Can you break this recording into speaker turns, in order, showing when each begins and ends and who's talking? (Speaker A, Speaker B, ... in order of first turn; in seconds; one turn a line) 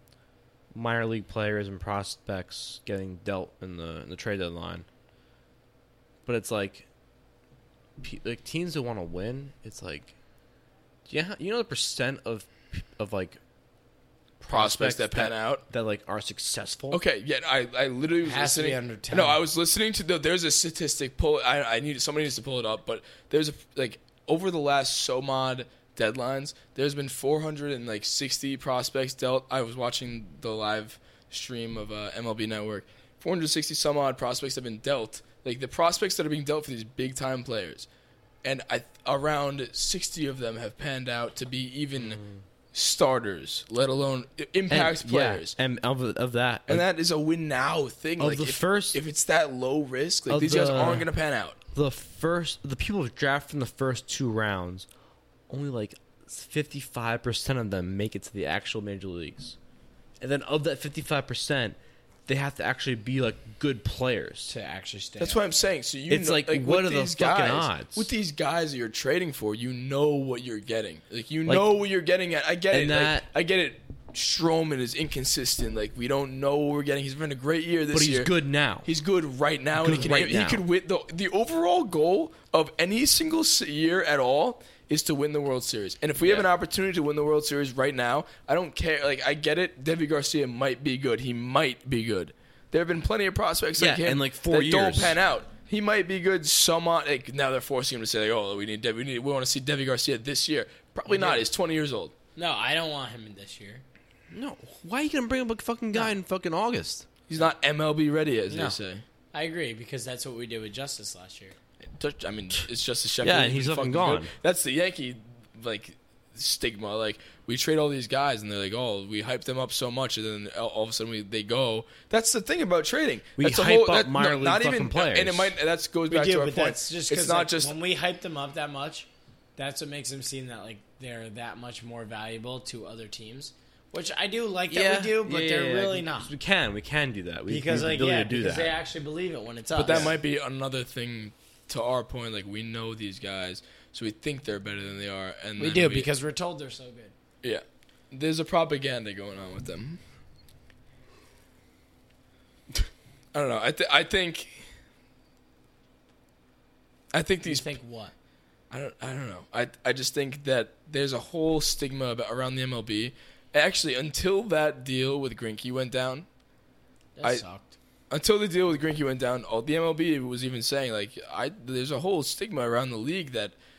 Speaker A: 0.7-4.9
Speaker A: 6.3-6.9
Speaker A: 8.0-10.1
Speaker A: 11.1-13.4
Speaker A: 14.4-17.0
Speaker B: 14.5-15.6
Speaker B: 16.9-37.9
Speaker C: 18.2-19.4
Speaker B: 38.4-42.2
Speaker A: 42.0-42.4
Speaker B: 42.7-45.5
Speaker A: 44.7-46.9
Speaker B: 46.7-51.6
Speaker A: 48.2-49.0
Speaker A: 50.3-51.1
Speaker A: 51.7-54.9
Speaker A: 55.5-59.6
Speaker A: 60.2-64.5
Speaker C: 64.5-65.7
Speaker B: 65.2-78.3
Speaker A: 66.1-68.1
Speaker A: 72.7-73.3
Speaker A: 77.9-78.9
Speaker B: 78.8-102.1
Speaker A: 79.8-80.6
Speaker A: 86.2-86.5
Speaker A: 93.8-95.2
Speaker C: 101.1-101.5
Speaker C: 102.4-103.8
Speaker A: 104.3-107.1
Speaker B: 107.3-109.0
Speaker C: 108.5-108.8
Speaker C: 109.3-111.6
Speaker B: 112.0-127.7
Speaker A: 113.2-114.3
Speaker A: 123.4-125.5
Speaker C: 126.1-136.3
Speaker A: 134.7-138.8
Speaker C: 137.5-140.2
Speaker B: 139.8-146.1
Speaker C: 145.6-147.1
Speaker B: 147.4-150.0
Speaker B: 153.3-154.6
Speaker B: 157.1-157.7
Speaker C: 157.4-158.1
Speaker B: 158.7-166.3
Speaker C: 167.2-167.8
Speaker B: 168.1-173.6